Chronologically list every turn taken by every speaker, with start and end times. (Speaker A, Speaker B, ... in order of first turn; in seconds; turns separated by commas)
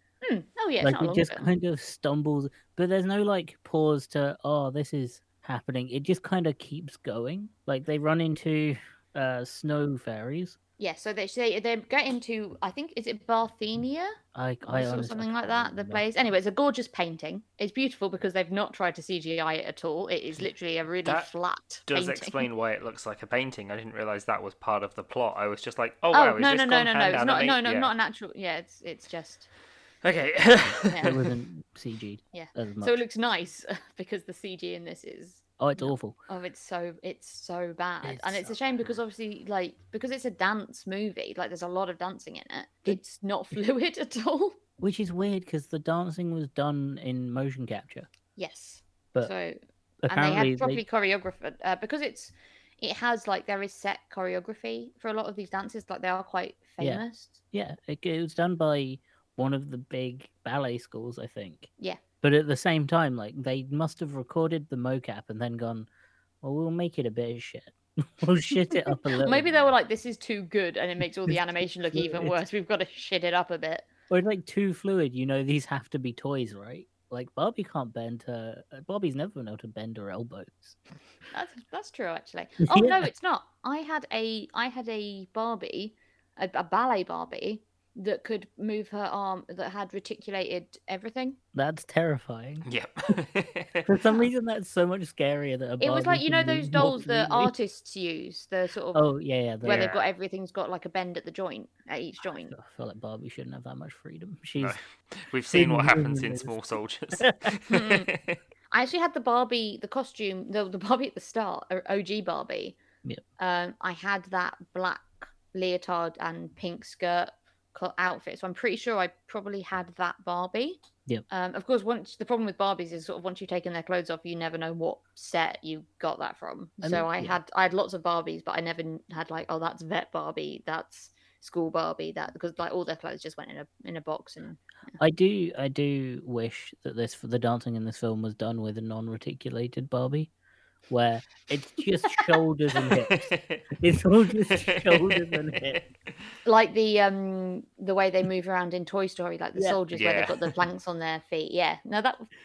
Speaker A: 0.2-1.5, Speaker B: 0.8-10.6, Speaker A: 10.8-22.4, Speaker B: 14.3-16.0, Speaker C: 21.9-27.9, Speaker A: 26.1-29.5, Speaker C: 30.0-31.1, Speaker A: 30.9-31.2, Speaker B: 31.0-33.0, Speaker A: 32.3-44.6, Speaker B: 35.6-36.1, Speaker B: 38.0-38.6, Speaker B: 44.8-48.1, Speaker A: 48.4-49.6, Speaker B: 50.0-50.8, Speaker A: 50.1-57.4, Speaker B: 56.8-61.7, Speaker B: 62.2-65.9, Speaker B: 66.4-69.6, Speaker A: 68.9-73.9, Speaker B: 71.9-72.3, Speaker B: 74.1-80.8, Speaker A: 81.3-91.4, Speaker B: 82.6-83.1, Speaker B: 91.5-92.7, Speaker C: 92.6-93.9, Speaker B: 93.9-97.5, Speaker A: 95.8-99.1, Speaker B: 98.9-99.9, Speaker A: 99.6-102.5, Speaker C: 99.7-100.1, Speaker B: 102.3-104.8, Speaker C: 104.6-108.4, Speaker B: 105.5-106.6, Speaker B: 107.2-107.5, Speaker A: 107.7-108.1, Speaker A: 108.7-112.8, Speaker A: 113.4-135.0, Speaker B: 126.8-127.4, Speaker B: 135.0-140.3, Speaker B: 140.9-145.8, Speaker A: 142.1-142.4, Speaker C: 143.1-143.6, Speaker C: 144.4-145.9, Speaker A: 146.4-152.3, Speaker C: 149.9-150.4